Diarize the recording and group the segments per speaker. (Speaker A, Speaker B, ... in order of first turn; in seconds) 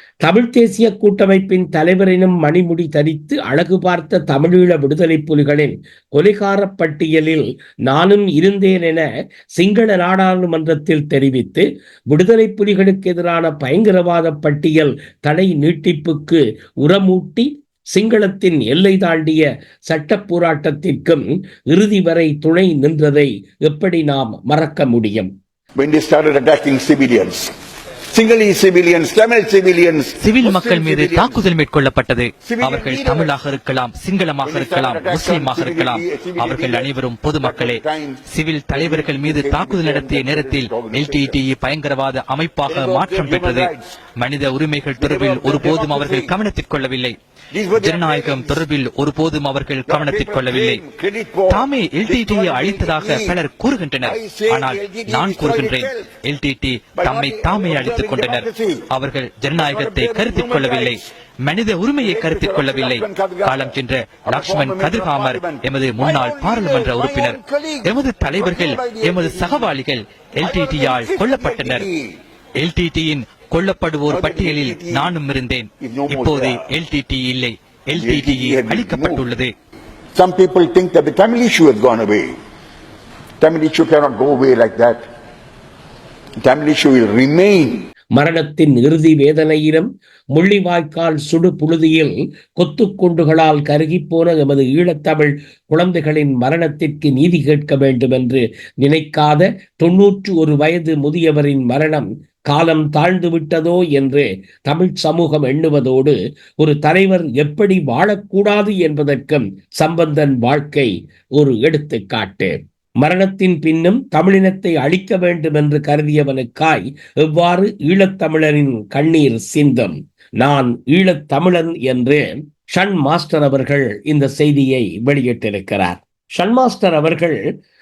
Speaker A: 0.2-25.3, 88.2-127.4
Speaker B: 25.8-27.5, 28.1-31.5, 32.5-33.3, 34.5-38.2, 38.7-41.4, 42.7-43.9, 45.0-46.3, 47.5-48.6, 49.9-53.4, 54.0-56.1, 57.0-58.9, 59.5-61.0, 62.0-69.7, 70.4-72.1, 74.1-75.1, 75.8-76.6, 77.9-79.2, 80.2-82.4, 83.4-85.0, 86.4-87.8
Speaker C: 30.2-47.2, 47.7-50.8, 51.5-71.9, 72.6-79.5